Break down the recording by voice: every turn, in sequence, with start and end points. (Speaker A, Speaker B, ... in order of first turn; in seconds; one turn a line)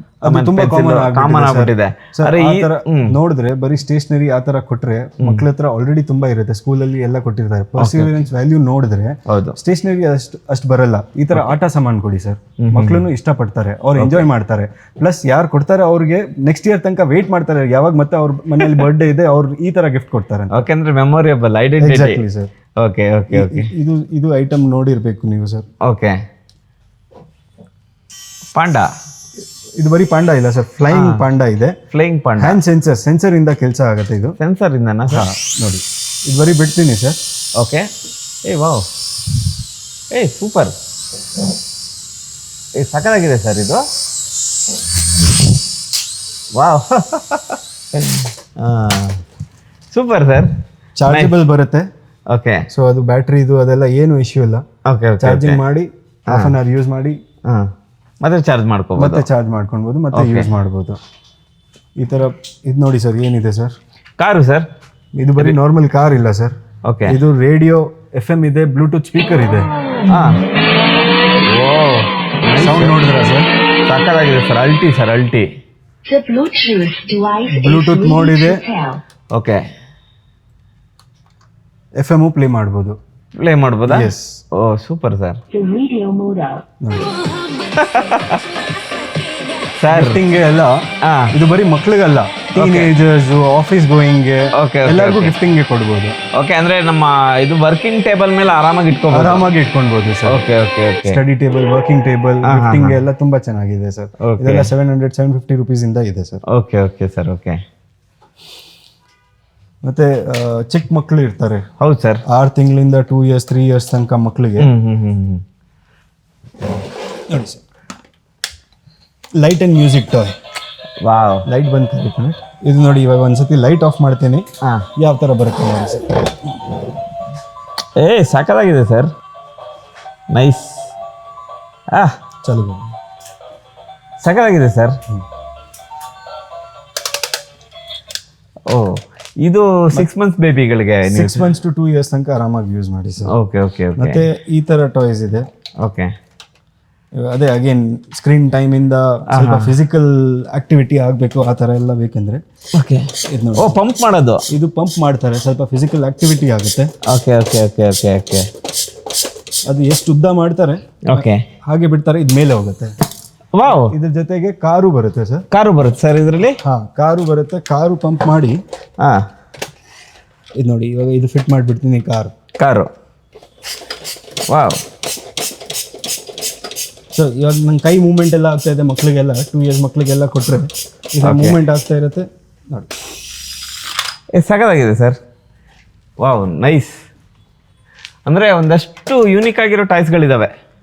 Speaker A: 0.2-20.6
Speaker B: 0.2-3.2
Speaker B: 7.8-8.2
Speaker B: 9.3-9.6
Speaker B: 12.6-13.1
Speaker B: 14.0-14.3
Speaker B: 18.6-18.9
Speaker B: 20.5-22.2
Speaker A: 21.8-22.5
Speaker B: 22.8-23.7
Speaker A: 23.3-25.6
Speaker B: 25.8-26.1
Speaker B: 28.5-28.9
Speaker A: 29.8-31.7
Speaker B: 30.9-31.3
Speaker B: 31.9-32.6
Speaker A: 32.4-34.4
Speaker B: 34.4-35.3
Speaker A: 35.1-37.2
Speaker B: 37.6-37.9
Speaker B: 38.4-38.9
Speaker B: 40.1-40.7
Speaker B: 42.7-43.8
Speaker B: 46.5-49.2
Speaker B: 49.9-50.5
Speaker A: 51.0-51.8
Speaker B: 51.1-51.3
Speaker B: 52.3-52.6
Speaker A: 52.7-54.6
Speaker B: 54.9-55.6
Speaker A: 55.2-57.1
Speaker B: 56.3-56.5
Speaker B: 57.5-59.3
Speaker A: 59.0-61.0
Speaker B: 60.1-60.5
Speaker A: 62.0-63.8
Speaker B: 64.2-64.7
Speaker A: 65.2-66.5
Speaker B: 66.8-67.2
Speaker A: 67.0-69.7
Speaker B: 70.0-70.4
Speaker B: 71.4-73.0
Speaker A: 72.5-73.5
Speaker B: 73.8-75.5
Speaker C: 76.0-79.0
Speaker A: 77.5-78.6
Speaker B: 79.3-79.6
Speaker A: 82.0-83.0
Speaker B: 83.4-85.4
Speaker A: 83.9-84.4
Speaker C: 85.5-86.6
Speaker A: 86.8-87.1
Speaker B: 87.7-88.4
Speaker B: 89.8-90.2
Speaker A: 89.9-90.8
Speaker B: 91.0-91.3
Speaker A: 91.3-96.2
Speaker B: 92.5-92.9
Speaker B: 94.5-95.3
Speaker B: 96.3-99.5
Speaker A: 99.1-100.4
Speaker B: 100.2-101.2
Speaker A: 101.0-106.4
Speaker B: 102.5-103.0
Speaker B: 104.2-104.7
Speaker B: 106.5-107.6
Speaker A: 109.8-111.6
Speaker B: 111.8-112.2
Speaker A: 112.3-114.7
Speaker B: 114.6-115.4
Speaker A: 117.3-117.6
Speaker A: 119.4-120.3
Speaker B: 121.0-121.4
Speaker A: 121.5-124.5
Speaker A: 125.0-126.3
Speaker B: 128.0-129.1
Speaker B: 130.3-130.9
Speaker A: 132.4-132.9
Speaker B: 134.2-135.0
Speaker B: 138.7-141.5
Speaker A: 141.1-143.3
Speaker B: 143.3-144.2
Speaker A: 144.0-145.4
Speaker B: 145.8-146.1
Speaker A: 147.2-152.4
Speaker B: 149.3-149.8
Speaker B: 152.8-154.4
Speaker A: 153.3-153.7
Speaker A: 154.5-156.9
Speaker B: 157.1-158.5
Speaker A: 159.7-162.9
Speaker B: 161.1-161.4
Speaker B: 163.5-163.9
Speaker A: 163.6-165.4
Speaker B: 165.5-166.6
Speaker A: 166.6-168.6
Speaker A: 170.6-172.3
Speaker B: 172.6-172.9
Speaker B: 174.5-174.8
Speaker A: 177.1-182.9
Speaker B: 181.2-181.6
Speaker B: 184.3-185.2
Speaker B: 186.2-186.9
Speaker B: 188.3-190.5